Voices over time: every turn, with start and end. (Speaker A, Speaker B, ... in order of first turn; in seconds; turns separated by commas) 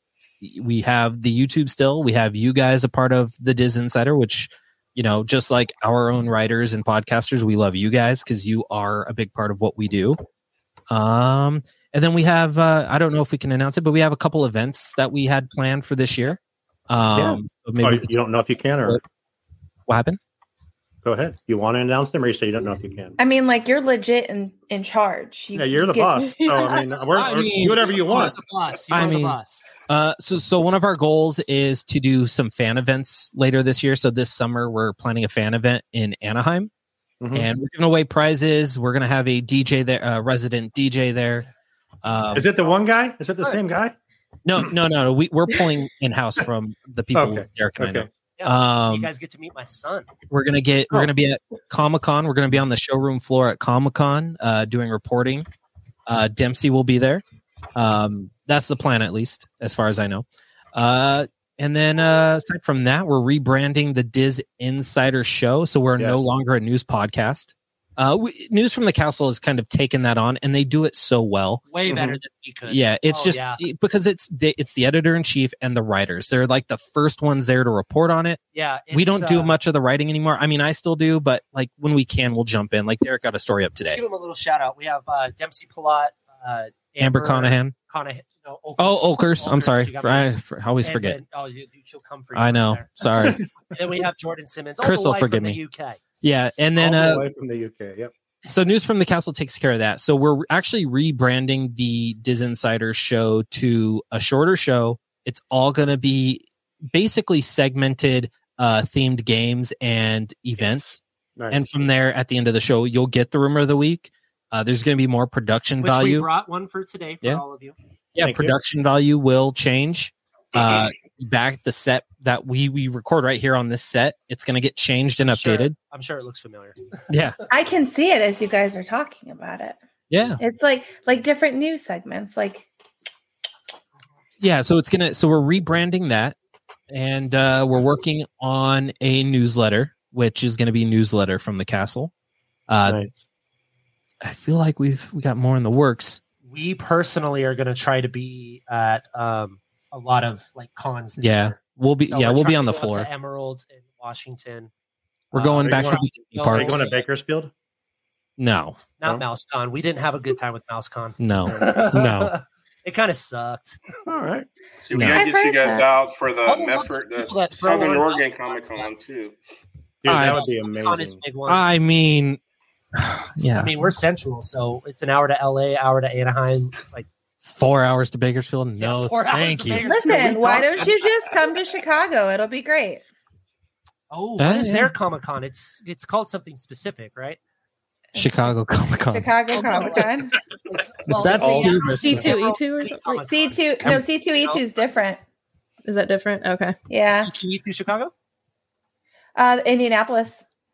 Speaker A: 0.4-10.2, Speaker A: 10.9-18.1, Speaker B: 17.1-19.0, Speaker A: 19.9-20.2, Speaker B: 21.0-23.2, Speaker C: 23.2-26.7, Speaker B: 25.6-28.4, Speaker D: 27.1-29.6, Speaker A: 27.2-28.3, Speaker A: 28.9-36.7, Speaker B: 37.2-37.5, Speaker A: 37.3-41.5, Speaker A: 42.0-42.5, Speaker B: 42.3-44.0, Speaker A: 44.5-49.1, Speaker B: 47.1-48.1, Speaker D: 48.4-50.1, Speaker A: 50.3-55.5, Speaker A: 56.1-57.2, Speaker A: 57.8-71.6, Speaker B: 66.0-66.3, Speaker D: 71.7-73.6, Speaker B: 71.9-72.2, Speaker A: 72.7-78.4, Speaker D: 78.5-79.5, Speaker A: 78.9-84.0, Speaker D: 83.8-90.3, Speaker A: 87.0-87.8, Speaker A: 88.8-91.2, Speaker D: 90.8-96.0, Speaker A: 92.3-93.4, Speaker A: 94.8-95.6, Speaker A: 96.2-97.3, Speaker B: 96.8-98.1, Speaker A: 98.5-116.3, Speaker B: 111.4-111.8, Speaker D: 115.8-117.8, Speaker A: 118.2-125.8, Speaker B: 118.2-118.5, Speaker D: 125.2-127.0, Speaker A: 127.1-127.4, Speaker C: 127.5-129.8, Speaker A: 130.1-130.4, Speaker C: 130.4-132.7, Speaker A: 134.4-136.4, Speaker A: 136.9-142.1, Speaker A: 142.7-143.0, Speaker B: 142.8-143.1, Speaker A: 144.2-146.2, Speaker D: 146.5-154.7, Speaker A: 151.2-153.1, Speaker A: 155.3-156.9, Speaker D: 155.3-157.0, Speaker B: 155.4-157.5, Speaker A: 158.4-158.8, Speaker D: 159.0-163.8, Speaker A: 161.2-162.3, Speaker B: 161.5-161.8, Speaker B: 164.1-164.5, Speaker E: 164.8-169.3, Speaker A: 164.9-165.2, Speaker C: 165.0-165.9, Speaker D: 166.5-168.9, Speaker B: 170.0-171.2, Speaker A: 170.1-170.5, Speaker D: 170.1-171.6, Speaker A: 171.5-172.4, Speaker A: 172.9-173.8, Speaker D: 173.5-177.1, Speaker A: 177.4-180.1, Speaker D: 178.8-180.9, Speaker C: 179.8-183.0, Speaker D: 184.1-187.4, Speaker A: 184.4-184.9, Speaker C: 188.1-188.5, Speaker A: 188.2-189.3, Speaker C: 189.1-190.3, Speaker D: 189.5-194.6, Speaker A: 191.1-192.4, Speaker B: 191.1-192.3, Speaker F: 191.4-193.3, Speaker C: 193.2-195.2, Speaker F: 195.8-196.8, Speaker C: 196.9-197.3, Speaker D: 197.1-198.1, Speaker C: 199.4-200.4